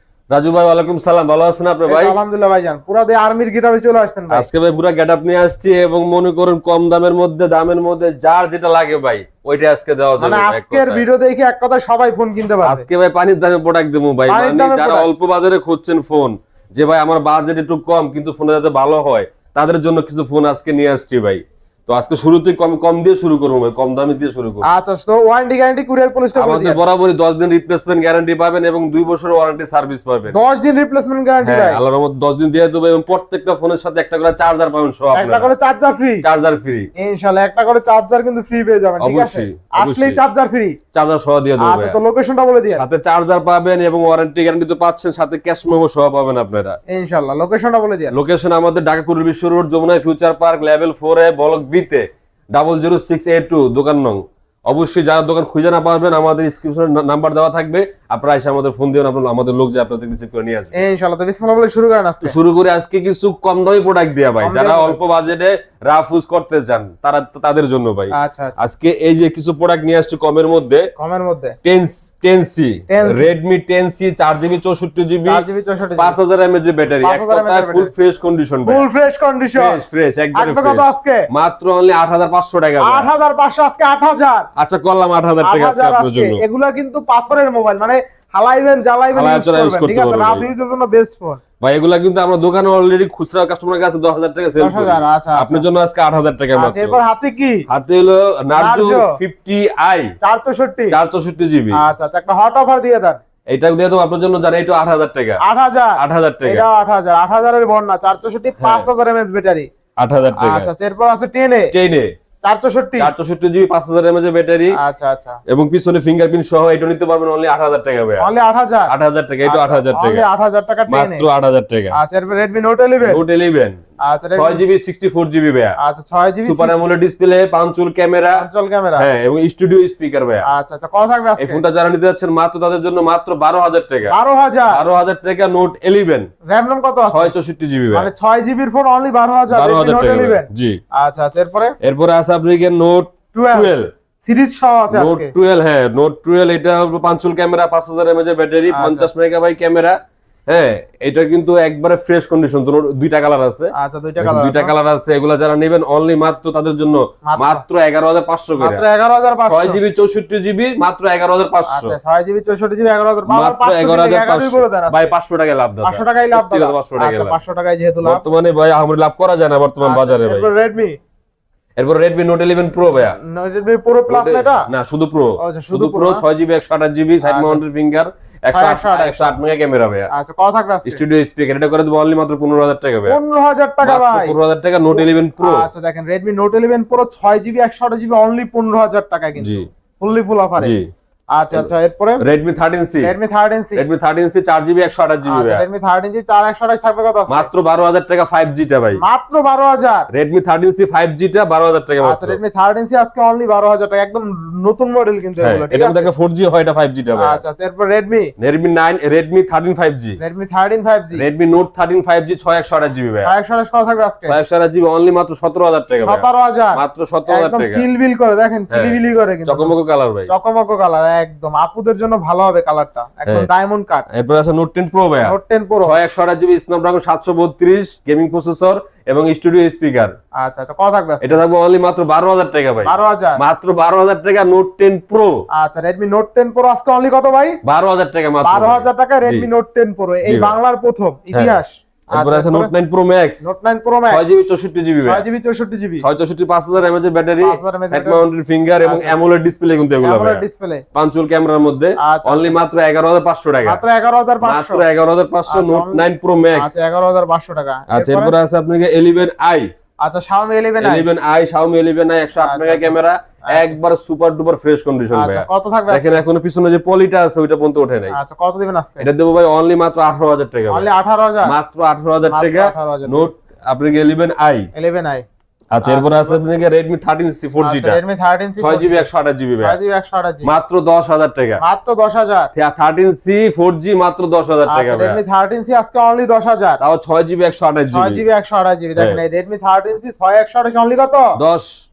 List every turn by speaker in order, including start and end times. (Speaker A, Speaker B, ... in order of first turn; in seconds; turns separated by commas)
Speaker A: 0.3-2.2, Speaker B: 1.9-4.5, Speaker A: 4.3-11.0, Speaker B: 10.2-12.9, Speaker A: 12.6-24.6, Speaker B: 14.3-15.1, Speaker B: 24.6-26.8, Speaker A: 26.3-30.4, Speaker B: 30.3-31.8, Speaker A: 31.4-35.5, Speaker B: 35.1-36.2, Speaker A: 36.2-36.9, Speaker B: 37.0-40.8, Speaker A: 39.0-40.2, Speaker A: 40.9-42.0, Speaker B: 41.6-42.8, Speaker A: 42.7-46.8, Speaker B: 46.9-48.1, Speaker A: 48.1-60.7, Speaker B: 60.7-62.4, Speaker A: 62.2-70.8, Speaker B: 64.4-65.0, Speaker B: 68.1-68.6, Speaker B: 71.0-71.5, Speaker A: 71.6-75.4, Speaker B: 72.9-73.3, Speaker B: 75.3-76.2, Speaker A: 76.0-78.8, Speaker B: 77.0-77.9, Speaker B: 78.6-79.8, Speaker A: 79.5-83.1, Speaker B: 80.3-81.2, Speaker B: 82.8-84.5, Speaker A: 84.5-86.4, Speaker B: 85.4-91.4, Speaker A: 89.1-90.5, Speaker A: 91.6-97.0, Speaker B: 94.6-95.6, Speaker B: 96.5-97.6, Speaker A: 97.7-100.1, Speaker B: 98.5-99.2, Speaker B: 100.2-101.0, Speaker A: 100.9-101.8, Speaker B: 101.7-103.2, Speaker A: 103.5-105.4, Speaker B: 105.4-109.7, Speaker A: 106.0-106.6, Speaker A: 108.6-108.9, Speaker A: 110.0-110.7, Speaker B: 110.3-111.7, Speaker A: 111.7-112.1, Speaker B: 112.4-113.1, Speaker A: 113.0-114.7, Speaker B: 114.8-115.4, Speaker A: 115.5-118.3, Speaker B: 118.2-118.9, Speaker A: 118.9-120.2, Speaker B: 119.5-121.3, Speaker A: 120.9-121.9, Speaker B: 121.9-123.2, Speaker A: 123.0-123.8, Speaker B: 124.0-124.6, Speaker A: 124.3-125.7, Speaker B: 125.8-126.8, Speaker A: 126.4-130.4, Speaker B: 128.3-129.1, Speaker B: 130.4-131.6, Speaker A: 131.4-134.1, Speaker B: 134.1-134.8, Speaker A: 134.7-136.3, Speaker B: 136.5-137.3, Speaker A: 137.1-138.1, Speaker B: 137.9-141.8, Speaker A: 139.5-140.8, Speaker A: 141.8-143.9, Speaker B: 143.3-145.3, Speaker A: 144.9-149.9, Speaker B: 148.7-149.1, Speaker A: 150.5-158.8, Speaker B: 153.7-154.7, Speaker B: 157.3-157.6, Speaker B: 158.6-159.8, Speaker A: 159.4-161.9, Speaker B: 161.7-165.2, Speaker A: 163.3-167.4, Speaker B: 165.8-168.2, Speaker A: 168.0-170.5, Speaker B: 169.8-171.0, Speaker A: 171.8-173.2, Speaker B: 173.0-174.7, Speaker A: 174.1-180.1, Speaker B: 175.4-176.2, Speaker B: 177.2-177.6, Speaker B: 178.5-179.4, Speaker B: 180.1-181.0, Speaker A: 180.8-183.2, Speaker B: 183.1-184.3, Speaker A: 183.8-185.7, Speaker B: 184.9-190.7, Speaker A: 189.3-189.7, Speaker A: 190.6-190.9, Speaker B: 191.3-192.2, Speaker A: 191.5-193.1, Speaker B: 193.0-193.9, Speaker A: 193.8-195.6, Speaker B: 195.2-197.5, Speaker A: 197.3-199.0, Speaker B: 199.0-200.1, Speaker A: 200.1-202.4, Speaker B: 202.0-206.1, Speaker A: 205.4-207.4, Speaker B: 207.2-208.3, Speaker A: 208.4-210.2, Speaker B: 210.2-211.2, Speaker A: 211.1-213.3, Speaker B: 213.2-214.3, Speaker A: 214.2-217.8, Speaker B: 216.0-219.7, Speaker A: 218.7-220.3, Speaker B: 220.3-224.1, Speaker A: 224.1-230.1, Speaker B: 225.2-226.0, Speaker B: 230.4-231.4, Speaker A: 231.2-235.4, Speaker B: 232.8-233.4, Speaker B: 235.5-237.6, Speaker A: 237.6-239.5, Speaker B: 238.4-242.7, Speaker A: 240.2-240.6, Speaker A: 242.1-243.5, Speaker B: 243.4-244.2, Speaker A: 244.0-245.2, Speaker B: 245.0-246.1, Speaker A: 246.0-250.4, Speaker B: 247.4-248.2, Speaker B: 248.8-249.2, Speaker B: 250.0-250.8, Speaker A: 250.9-253.8, Speaker B: 252.0-252.5, Speaker B: 253.6-254.8, Speaker A: 254.4-256.9, Speaker B: 255.5-258.3, Speaker A: 257.9-259.7, Speaker B: 260.0-261.1, Speaker A: 260.8-268.1, Speaker B: 262.4-262.9, Speaker B: 263.5-263.8, Speaker B: 265.1-266.2, Speaker B: 268.1-269.1, Speaker A: 269.0-270.9, Speaker B: 270.7-271.6, Speaker A: 271.4-274.7, Speaker B: 272.2-273.3, Speaker B: 274.7-275.2, Speaker A: 275.7-278.0, Speaker B: 275.8-276.4, Speaker B: 277.6-279.1, Speaker A: 278.6-279.8, Speaker B: 279.6-280.5, Speaker A: 280.4-281.6, Speaker B: 281.6-282.5, Speaker A: 282.6-285.2, Speaker B: 284.7-286.8, Speaker A: 286.8-288.2, Speaker B: 287.9-291.3, Speaker A: 291.4-291.7